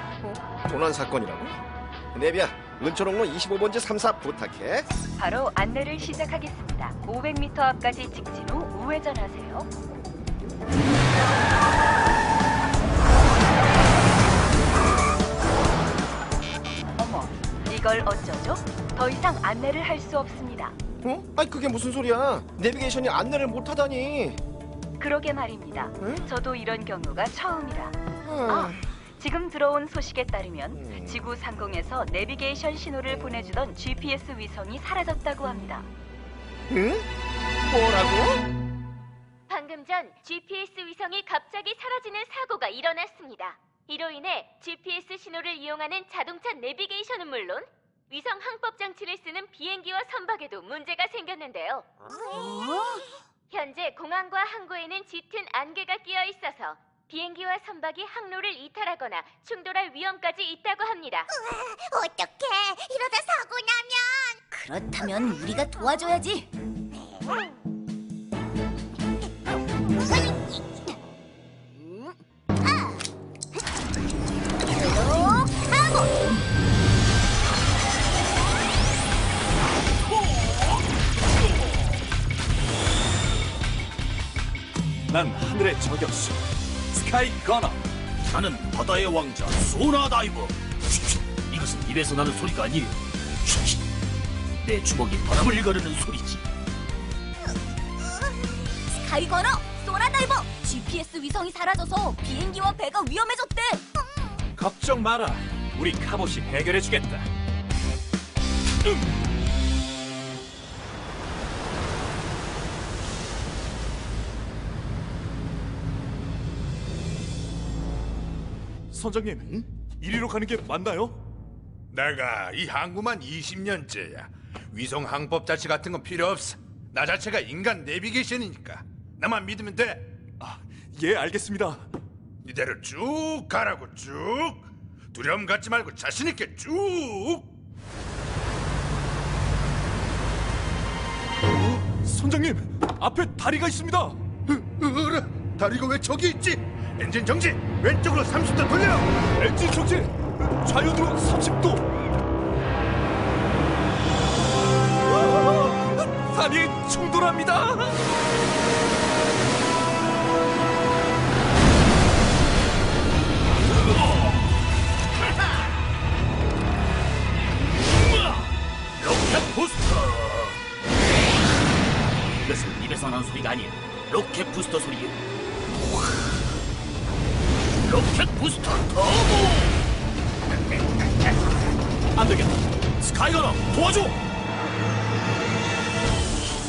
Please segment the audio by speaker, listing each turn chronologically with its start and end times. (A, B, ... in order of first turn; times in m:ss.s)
0:00.6-0:01.6 A
0:02.1-0:04.9 A
0:05.2-0:09.7 B
0:17.0-0:20.8 B
0:21.0-0:24.4 A
0:25.0-0:27.9 B
0:26.0-0:26.3 A
0:28.2-0:28.8 A
0:28.5-0:35.9 B
0:30.7-0:31.2 A
0:36.7-0:37.1 A
0:37.7-0:38.4 A
0:39.5-0:51.8 C
0:52.3-0:53.0 D
0:53.5-1:01.3 C
1:01.5-1:04.4 E
1:04.5-1:06.5 D
1:10.0-1:10.9 E
1:12.6-1:13.0 E
1:14.7-1:15.7 D
1:14.8-1:16.1 E
1:25.1-1:26.4 F
1:26.9-1:27.8 F
1:28.3-1:33.8 G
1:34.6-1:36.4 G
1:38.9-1:43.8 D
1:44.6-1:47.3 F
1:58.9-2:01.2 F
2:01.9-2:10.1 H
2:10.4-2:11.8 F
2:12.4-2:17.4 H
2:22.0-2:24.1 F
2:24.5-2:29.2 H
2:29.4-2:31.8 F
2:36.2-2:37.9 F
2:49.0-2:50.6 G
2:52.4-2:55.1 G
2:57.8-2:59.8 G
3:02.2-3:02.6 F
3:03.0-3:04.2 G